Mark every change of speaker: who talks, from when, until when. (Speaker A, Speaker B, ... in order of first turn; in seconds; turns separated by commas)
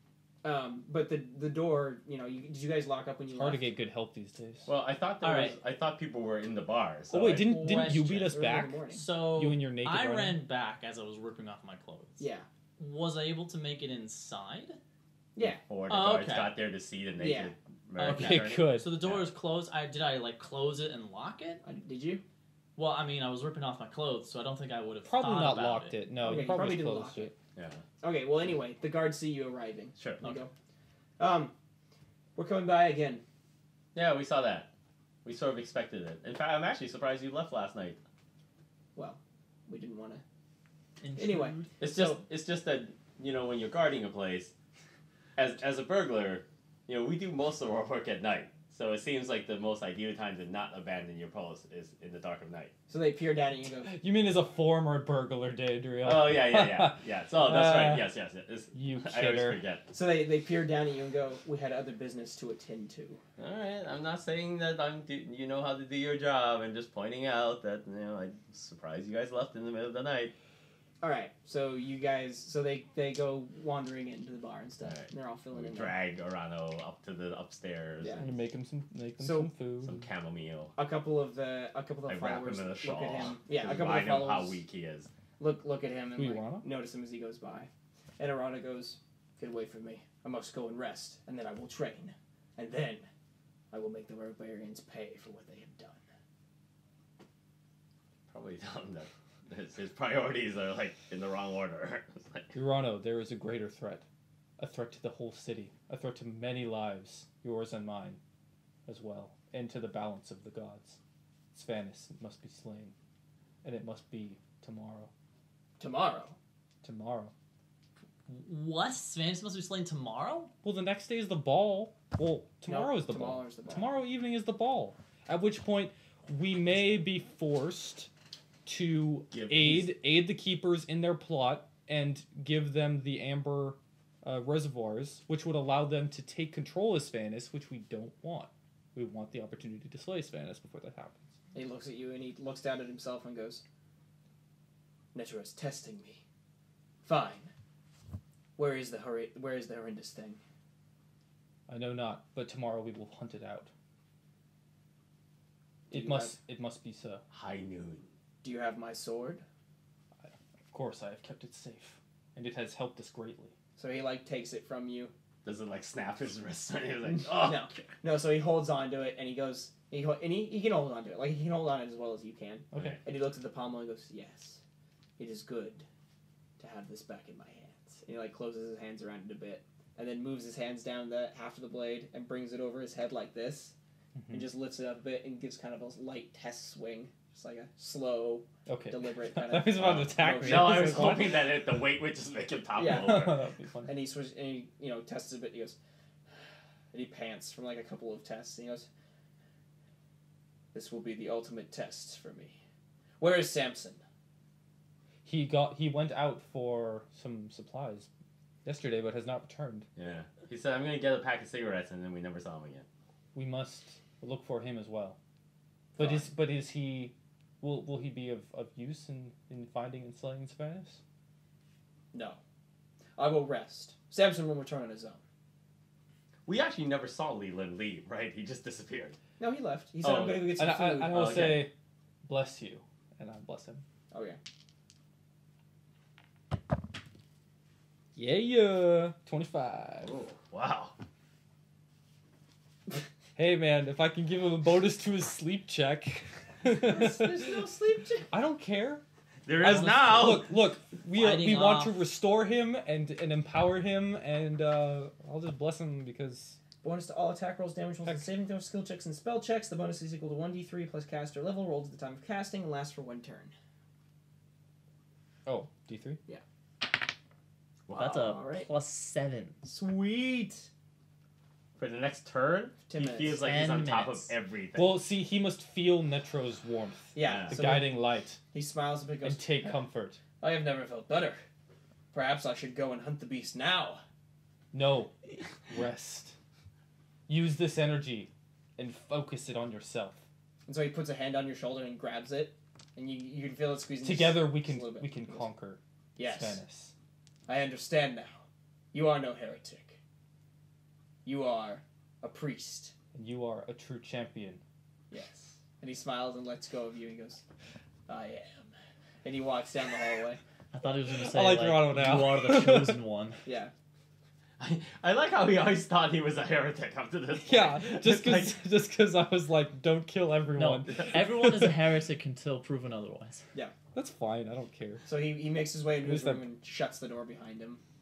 Speaker A: 0.4-3.7, Speaker B: 3.3-4.7, Speaker C: 4.6-8.0, Speaker D: 5.2-5.6, Speaker B: 7.1-8.8, Speaker D: 7.3-12.2, Speaker A: 8.1-9.0, Speaker B: 9.3-10.4, Speaker A: 12.2-12.5, Speaker D: 12.8-14.8, Speaker A: 15.3-15.6, Speaker C: 15.4-19.3, Speaker D: 15.9-16.6, Speaker A: 17.1-17.5, Speaker D: 17.9-21.6, Speaker B: 18.1-18.9, Speaker A: 21.6-22.2, Speaker D: 22.8-26.2, Speaker B: 25.0-27.3, Speaker C: 26.2-26.5, Speaker A: 26.2-27.3, Speaker C: 27.6-27.8, Speaker A: 28.0-30.5, Speaker C: 30.0-30.2, Speaker A: 31.2-31.5, Speaker A: 32.4-33.2, Speaker C: 33.9-34.7, Speaker C: 35.2-38.0, Speaker A: 38.9-40.2, Speaker D: 41.0-41.8, Speaker A: 41.2-42.2, Speaker C: 41.8-44.5, Speaker C: 45.4-52.7, Speaker A: 52.9-53.9, Speaker B: 53.8-58.1, Speaker C: 56.0-59.8, Speaker B: 58.7-59.6, Speaker A: 59.9-63.2, Speaker C: 63.4-70.3, Speaker A: 71.0-76.0, Speaker C: 74.8-78.2, Speaker A: 78.0-78.2, Speaker B: 78.2-80.0, Speaker A: 79.2-79.5, Speaker C: 79.8-80.7, Speaker A: 80.8-84.6, Speaker C: 82.1-85.1, Speaker A: 85.4-93.1, Speaker B: 86.2-86.7, Speaker A: 93.7-96.0, Speaker C: 98.3-102.5, Speaker B: 102.5-104.0, Speaker B: 104.6-108.2, Speaker B: 108.8-111.0, Speaker B: 111.5-112.9, Speaker B: 113.6-115.1, Speaker A: 115.8-116.4, Speaker B: 116.8-117.3, Speaker D: 118.3-120.5, Speaker B: 120.6-128.1, Speaker A: 122.7-123.9, Speaker B: 128.7-141.3, Speaker C: 129.3-129.9, Speaker A: 141.5-143.6, Speaker A: 145.1-146.2, Speaker A: 147.0-147.5, Speaker A: 148.6-150.4, Speaker B: 151.7-153.7, Speaker B: 155.9-157.2, Speaker A: 155.9-156.4, Speaker C: 157.3-158.1, Speaker A: 158.4-159.4, Speaker B: 160.2-163.5, Speaker A: 163.8-165.1, Speaker C: 165.4-167.9, Speaker A: 167.3-174.6, Speaker B: 172.7-173.0, Speaker C: 172.7-173.0, Speaker A: 175.2-175.8, Speaker A: 176.6-183.7, Speaker B: 184.1-184.5, Speaker A: 184.3-191.3, Speaker B: 188.7-191.4, Speaker C: 189.8-193.4, Speaker A: 192.8-193.2, Speaker B: 192.8-193.9, Speaker A: 193.8-195.8, Speaker A: 196.9-198.9, Speaker A: 200.7-202.6, Speaker A: 203.2-204.0, Speaker B: 205.2-208.1, Speaker B: 208.6-209.9, Speaker C: 209.9-212.8, Speaker B: 213.3-215.2, Speaker B: 215.9-221.0, Speaker C: 216.0-216.2, Speaker A: 222.1-222.4, Speaker A: 223.2-225.2, Speaker C: 226.4-229.2, Speaker A: 229.4-231.3, Speaker C: 230.0-230.5, Speaker B: 230.6-231.7, Speaker C: 231.1-231.7, Speaker B: 232.2-233.8, Speaker A: 234.1-234.4, Speaker B: 238.1-240.1, Speaker C: 240.0-240.9, Speaker B: 243.3-247.5, Speaker A: 246.7-248.3, Speaker B: 248.3-249.0, Speaker C: 249.4-250.5, Speaker D: 249.6-250.3, Speaker B: 249.6-256.6, Speaker D: 251.1-252.1, Speaker A: 256.8-263.5, Speaker B: 258.0-258.3, Speaker B: 265.4-266.2, Speaker C: 267.9-268.3, Speaker D: 267.9-269.6, Speaker A: 268.2-268.7, Speaker A: 269.6-270.7, Speaker C: 271.8-274.9, Speaker A: 272.9-273.5, Speaker D: 273.3-274.3, Speaker B: 274.7-278.4, Speaker A: 277.1-279.9, Speaker C: 277.2-277.6, Speaker B: 279.2-280.2, Speaker A: 280.4-281.4, Speaker A: 282.1-284.0, Speaker B: 284.7-286.3, Speaker B: 287.3-290.2, Speaker A: 290.6-295.5, Speaker B: 294.0-296.9, Speaker A: 296.1-296.6, Speaker A: 297.5-298.4, Speaker A: 298.9-300.0, Speaker A: 301.2-302.9, Speaker B: 303.1-304.6, Speaker A: 305.1-307.4, Speaker A: 308.1-308.7, Speaker A: 309.2-310.4, Speaker D: 310.7-313.4, Speaker B: 311.2-313.0, Speaker A: 313.4-313.7, Speaker C: 314.6-318.6, Speaker B: 317.4-321.8, Speaker D: 320.5-323.4, Speaker C: 320.9-321.4, Speaker B: 323.9-325.1, Speaker A: 325.0-327.8, Speaker B: 326.0-326.4